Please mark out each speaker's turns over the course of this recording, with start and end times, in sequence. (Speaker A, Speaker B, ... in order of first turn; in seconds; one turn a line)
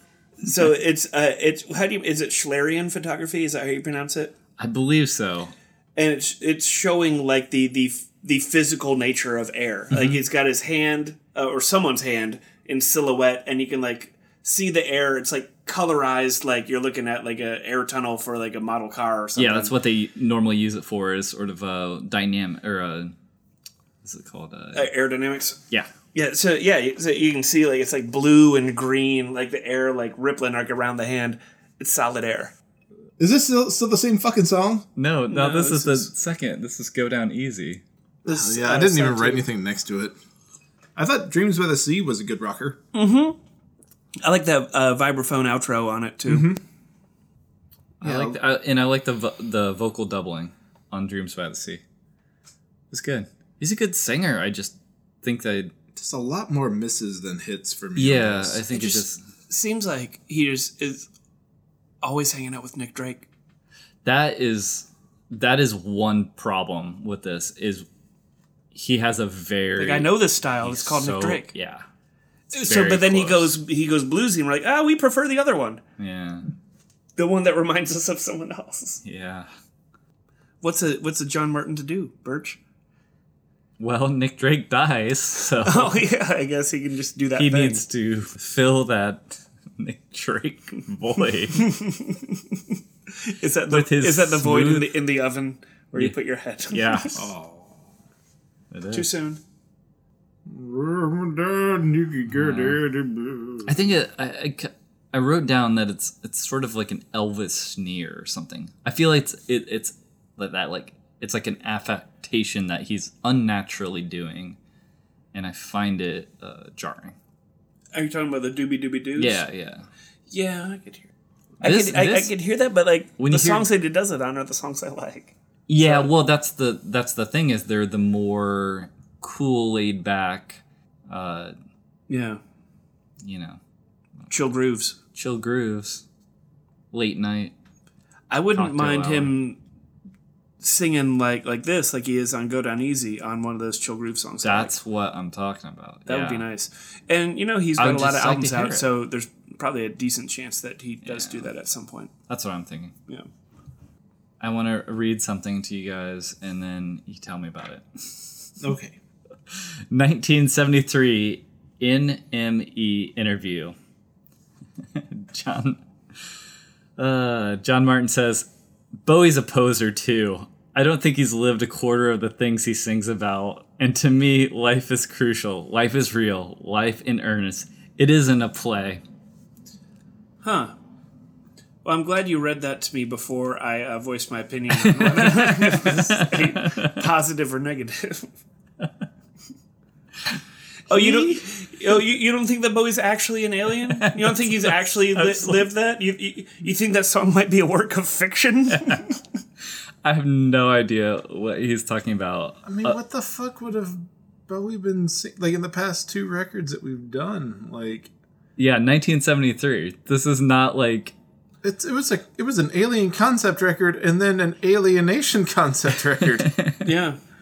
Speaker A: 0.4-4.3
Speaker B: 4.6-5.5
Speaker A: 6.0-19.7
Speaker B: 19.4-23.1
Speaker B: 24.0-24.9
Speaker A: 24.7-25.6
Speaker A: 26.1-32.5
Speaker C: 33.2-34.9
Speaker B: 35.0-37.8
Speaker A: 35.3-36.1
Speaker C: 38.2-40.1
Speaker A: 38.2-39.4
Speaker C: 41.0-42.8
Speaker A: 42.9-43.4
Speaker A: 44.2-46.5
Speaker C: 46.2-46.6
Speaker B: 48.0-51.8
Speaker C: 48.0-48.4
Speaker B: 52.9-55.7
Speaker C: 55.9-58.6
Speaker B: 58.0-59.2
Speaker A: 58.7-61.1
Speaker A: 62.0-63.3
Speaker B: 64.0-67.8
Speaker B: 68.7-71.8
Speaker A: 69.8-71.5
Speaker B: 72.5-73.5
Speaker A: 72.5-75.8
Speaker B: 76.0-76.5
Speaker A: 77.2-79.0
Speaker B: 79.0-79.5
Speaker A: 80.6-82.6
Speaker B: 83.8-86.0
Speaker A: 85.6-87.8
Speaker B: 87.3-91.7
Speaker A: 91.5-97.2
Speaker B: 93.7-94.9
Speaker B: 96.7-97.3
Speaker C: 97.1-97.8
Speaker B: 98.7-99.1
Speaker A: 98.9-99.4
Speaker C: 100.5-103.9
Speaker B: 102.3-102.8
Speaker B: 103.7-114.6
Speaker B: 115.3-117.2
Speaker A: 117.9-119.4
Speaker B: 119.2-119.9
Speaker A: 120.3-121.1
Speaker A: 121.6-126.1
Speaker B: 121.6-122.3
Speaker B: 123.2-123.7
Speaker B: 125.7-131.5
Speaker A: 132.1-132.4
Speaker B: 133.2-133.6
Speaker A: 134.3-135.0
Speaker B: 135.1-136.0
Speaker B: 136.9-137.5
Speaker A: 138.3-139.6
Speaker B: 138.5-139.3
Speaker A: 140.6-144.7
Speaker B: 144.4-146.4
Speaker A: 146.1-152.1
Speaker B: 147.8-148.8
Speaker B: 151.0-151.5
Speaker B: 152.3-152.9
Speaker B: 154.4-158.3
Speaker C: 158.6-158.9
Speaker B: 159.5-163.7
Speaker B: 164.9-165.8
Speaker B: 167.0-168.5
Speaker B: 169.0-179.0
Speaker A: 180.4-180.7
Speaker A: 181.8-188.3
Speaker B: 184.8-187.0
Speaker A: 190.9-199.2
Speaker B: 190.9-191.3
Speaker B: 193.9-195.7
Speaker B: 198.7-199.0
Speaker B: 200.0-203.0
Speaker C: 202.6-208.1
Speaker B: 208.6-211.1
Speaker C: 211.6-216.6
Speaker B: 216.4-216.8
Speaker A: 216.8-217.2